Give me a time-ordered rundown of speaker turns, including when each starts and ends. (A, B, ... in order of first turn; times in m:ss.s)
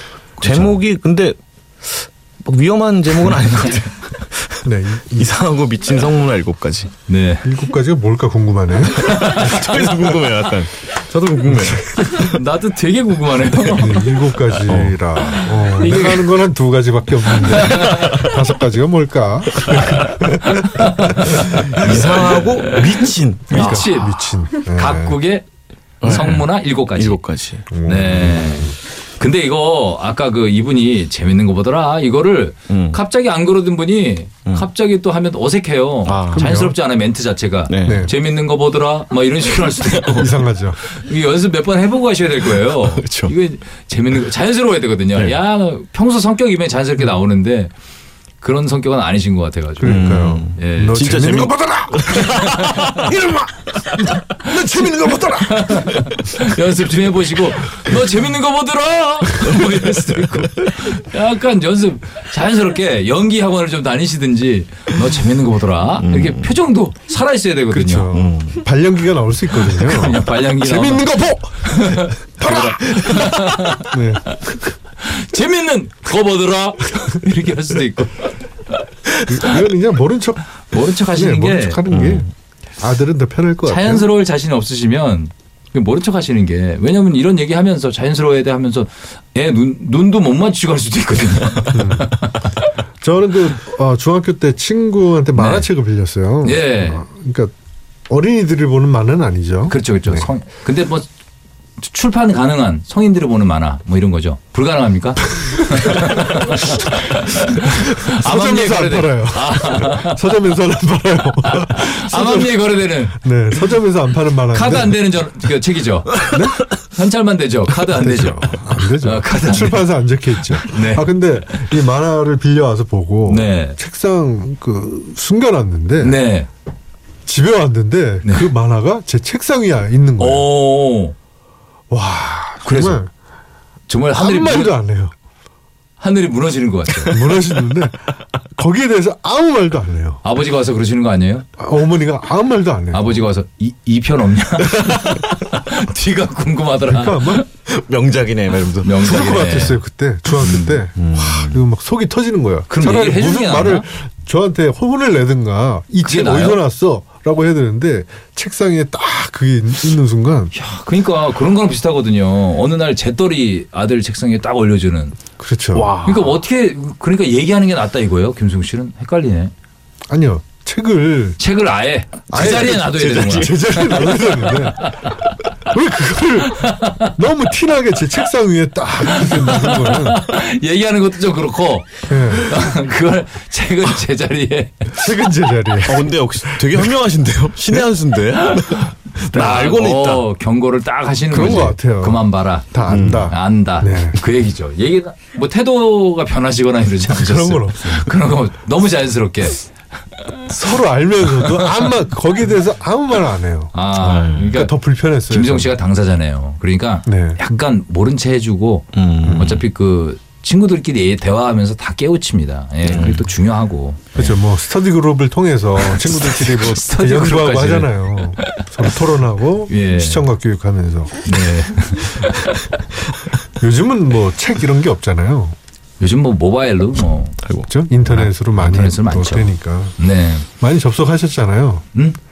0:00.4-0:00.8 A
0:00.4-0:06.9 B
0:04.6-0:05.3 C
0:07.1-0:07.5 A
0:07.4-0:09.3 C
0:08.9-0:12.3 B
0:09.0-0:09.8 A
0:11.6-0:12.3 C
0:12.1-0:14.2 A
0:13.8-0:21.9 C
0:14.6-0:16.2 B
0:15.2-0:16.3 A
0:17.5-0:18.3 A
0:17.7-0:18.2 B
0:19.9-0:25.4 A
0:21.4-0:23.8 B
0:23.5-0:25.2 C
0:26.0-0:27.7 B
0:26.0-0:27.2 A
0:27.7-0:28.8 C
0:27.8-0:47.7 A
0:32.7-0:33.0 B
0:36.1-0:36.7 B
0:36.3-0:36.7 C
0:37.7-0:38.1 B
0:37.8-0:38.1 C
0:39.8-0:40.2 B
0:40.1-0:40.8 C
0:42.7-0:43.3 B
0:48.4-0:51.2 A
0:49.8-0:55.9 C
0:49.8-0:53.2 B
0:52.1-0:53.1 A
0:54.2-1:08.1 A
1:06.0-1:06.6 B
1:07.7-1:13.3 C
1:08.1-1:08.6 B
1:09.7-1:18.3 A
1:13.8-1:14.5 C
1:19.3-1:20.4 C
1:20.7-1:21.8 A
1:21.1-1:22.3 C
1:21.9-1:22.3 B
1:22.8-1:24.1 C
1:23.7-1:32.5 A
1:31.7-1:32.1 C
1:33.0-1:37.5 C
1:35.4-1:35.7 A
1:36.4-1:37.0 A
1:38.1-1:40.3 C
1:39.7-1:41.1 A
1:41.8-1:50.4 A
1:45.4-1:46.1 C
1:47.6-1:52.5 C
1:51.4-1:53.2 A
1:53.2-1:55.0 C
1:54.5-1:56.3 A
1:56.3-1:56.6 C
1:56.9-1:59.9 A
1:58.0-2:06.2 C
2:00.6-2:01.7 A
2:03.3-2:03.8 A
2:06.0-2:06.5 A
2:07.3-2:10.5 C
2:08.2-2:08.5 A
2:10.2-2:11.2 A
2:11.9-2:13.1 C
2:12.6-2:13.0 A
2:13.9-2:14.8 A
2:14.1-2:15.1 C
2:16.0-2:17.2 A
2:17.1-2:20.2 C
2:20.2-2:21.5 A
2:21.6-2:23.0 C
2:22.9-2:27.4 A
2:26.9-2:27.4 C
2:27.6-2:29.2 B
2:28.8-2:29.8 A
2:29.0-2:40.5 C
2:30.4-2:30.8 A
2:31.0-2:31.6 B
2:32.7-2:33.8 A
2:36.0-2:36.6 A
2:40.5-2:45.2 A
2:45.4-2:45.9 C
2:45.7-2:46.4 B
2:46.0-2:49.5 A
2:50.1-2:51.4 C
2:51.4-2:55.3 A
2:52.3-2:54.9 C
2:52.4-2:53.5 B
2:55.7-3:00.2 C
2:56.5-2:57.1 A
2:59.1-3:05.0 A
3:02.1-3:02.6 C
3:04.9-3:06.8 C
3:05.8-3:10.3 B
3:08.6-3:19.7 A
3:11.3-3:14.2 C
3:12.9-3:13.3 B
3:17.1-3:18.1 C
3:20.5-3:23.7 C
3:21.4-3:21.8 A
3:23.7-3:24.7 A
3:24.0-3:24.6 B
3:24.5-3:25.7 C
3:25.3-3:34.2 A
3:27.1-3:27.4 C
3:28.9-3:29.6 B
3:29.3-3:29.5 C
3:32.8-3:33.3 B
3:34.2-3:41.3 C
3:35.8-3:38.7 A
3:39.7-3:40.3 A
3:41.2-3:42.8 A
3:43.6-3:45.6 C
3:46.0-3:47.4 A
3:47.4-3:47.7 B
3:47.7-3:50.0 C
3:48.0-3:50.5 A
3:50.6-3:51.8 C
3:51.9-3:52.2 A